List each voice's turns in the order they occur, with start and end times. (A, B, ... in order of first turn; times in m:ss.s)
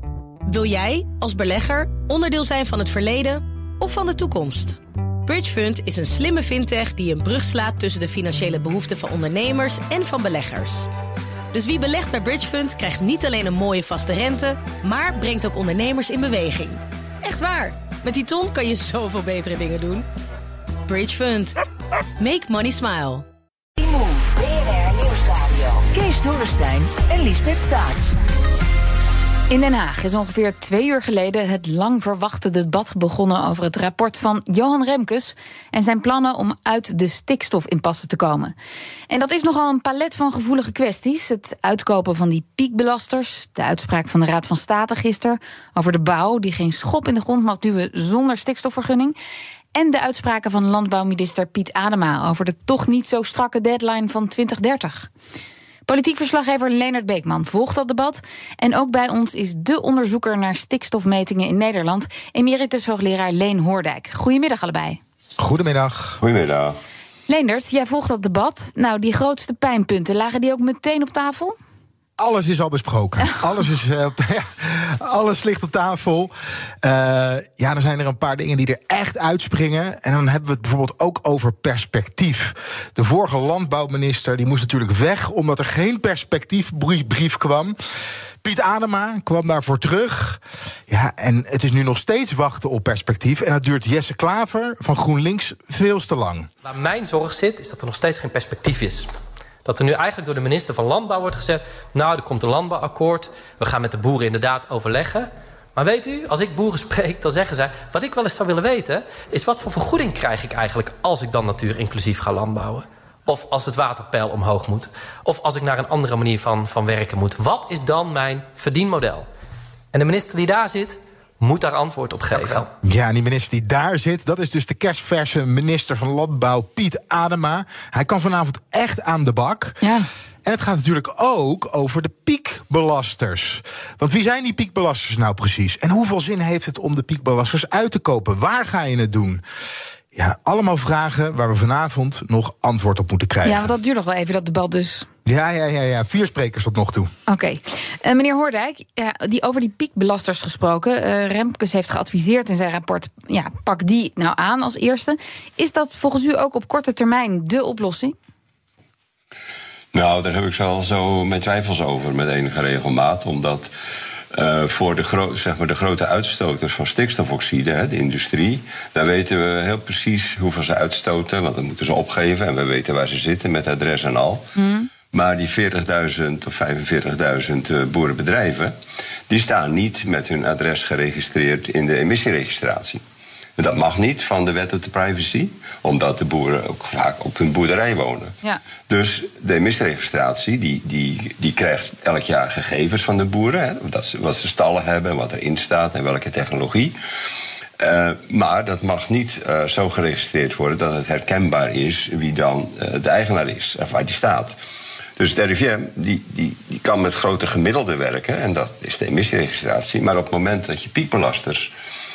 0:00.5-0:10.9 A
0:11.5-0:20.1 A
0:20.8-0:21.5 A
0:22.2-0:23.2 A
0:23.8-0:28.1 B
0:29.5-0:38.5 C
0:39.1-0:49.1 C
0:49.7-0:55.1 C
0:55.8-1:05.0 C
1:05.4-1:06.2 D
1:06.2-1:06.8 E
1:07.3-1:11.5 C
1:12.2-1:27.8 D
1:28.4-1:36.5 D
1:36.6-1:39.1 F
1:39.6-1:59.3 F
1:59.9-2:02.7 F
2:02.8-2:09.9 D
2:09.8-2:10.1 C
2:10.4-2:19.4 D
2:20.1-2:23.7 D
2:23.4-2:25.1 C
2:25.2-2:27.1 D
2:27.3-2:38.1 C
2:39.9-2:43.7 E
2:44.3-2:54.5 E
2:54.6-2:54.9 C
2:55.1-2:58.7 E
2:59.3-3:03.0 E
3:03.6-3:08.3 E
3:08.9-3:16.9 E
3:17.8-3:24.6 E
3:25.2-3:31.7 E